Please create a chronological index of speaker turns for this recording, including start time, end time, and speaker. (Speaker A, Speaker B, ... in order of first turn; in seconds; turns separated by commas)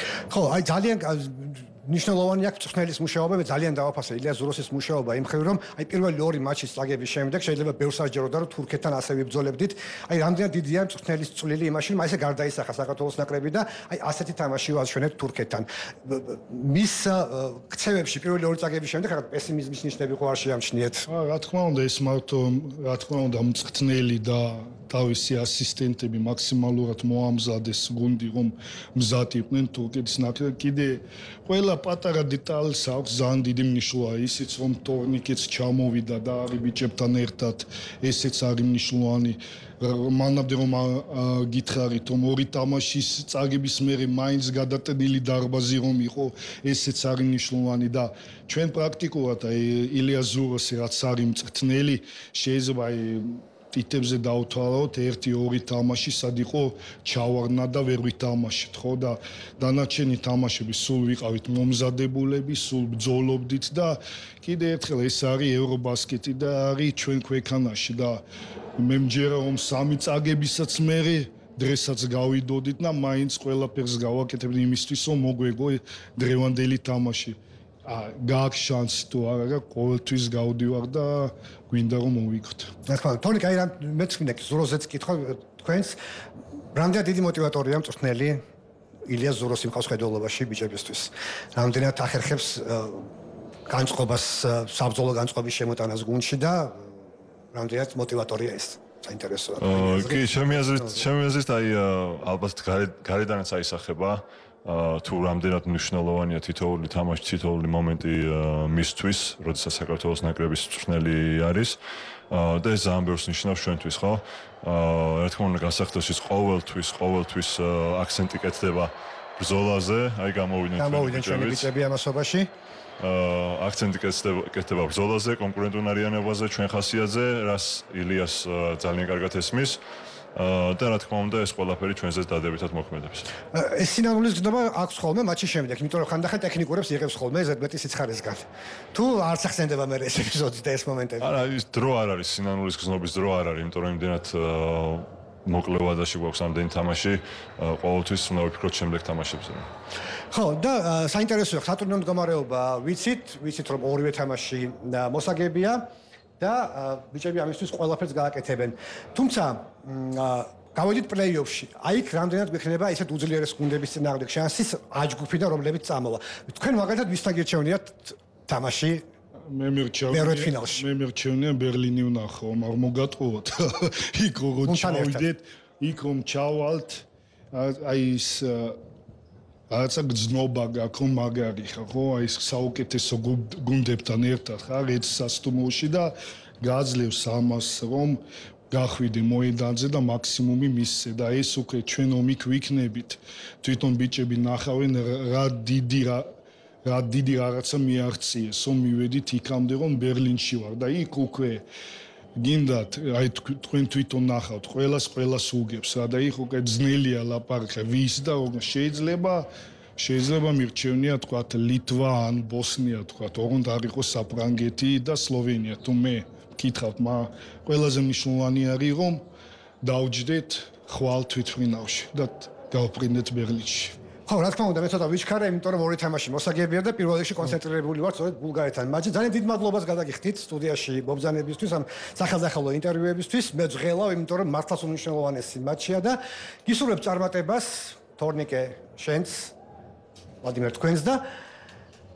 Speaker A: 0.3-21.1, Speaker B: 21.1-68.2, Speaker B: 68.8-82.7, Speaker A: 82.9-86.0, Speaker A: 86.7-88.4, Speaker A: 89.1-93.1, Speaker A: 93.7-96.9, Speaker A: 97.5-101.0, Speaker C: 99.6-111.8, Speaker C: 112.3-121.7, Speaker A: 120.8-122.5, Speaker C: 123.0-129.8, Speaker C: 130.3-133.3, Speaker A: 133.5-141.3, Speaker C: 141.2-149.7, Speaker A: 150.3-155.9, Speaker A: 156.4-169.0, Speaker B: 169.5-178.8, Speaker A: 170.1-170.8, Speaker A: 174.6-175.3, Speaker B: 179.7-196.2, Speaker B: 196.8-201.6, Speaker B: 202.4-219.2, Speaker B: 219.8-223.9, Speaker A: 224.3-239.5, Speaker A: 240.4-241.2